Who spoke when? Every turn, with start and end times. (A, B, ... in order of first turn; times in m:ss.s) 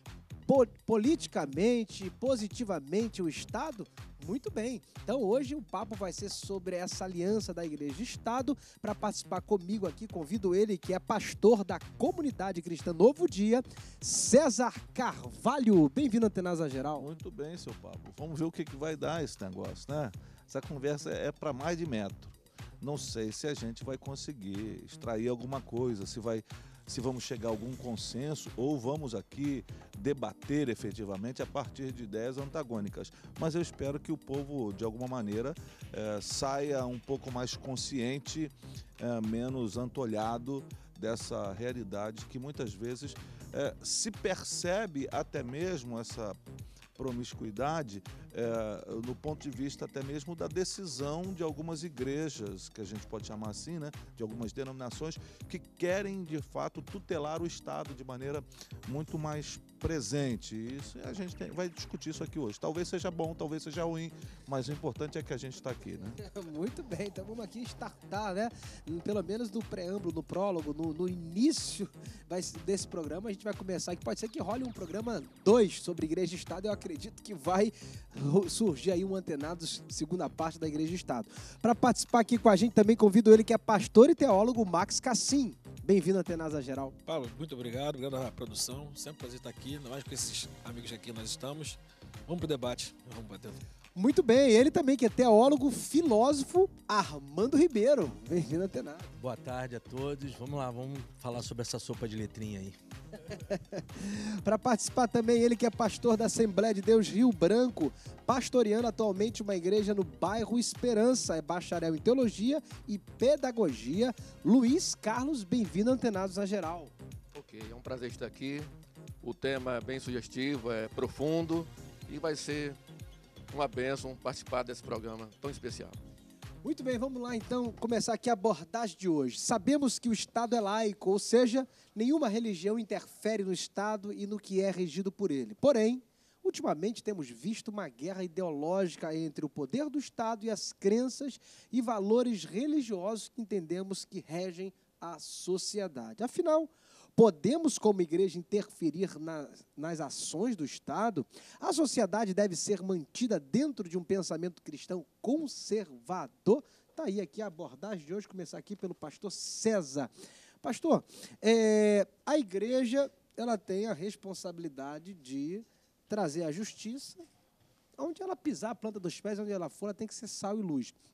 0:00.5-0:17.0 A
0:17.0-0:46.4 B
0:47.0-1:06.2 B
1:06.2-1:27.0 A
1:27.1-1:33.6 C
1:34.0-1:39.1 A
1:39.2-1:42.8 D
1:43.3-1:56.9 A
1:57.3-1:58.7 E
1:59.2-2:02.8 E
2:03.5-2:06.0 E
2:06.6-2:40.1 A
2:40.6-2:47.2 A
2:48.0-2:50.9 A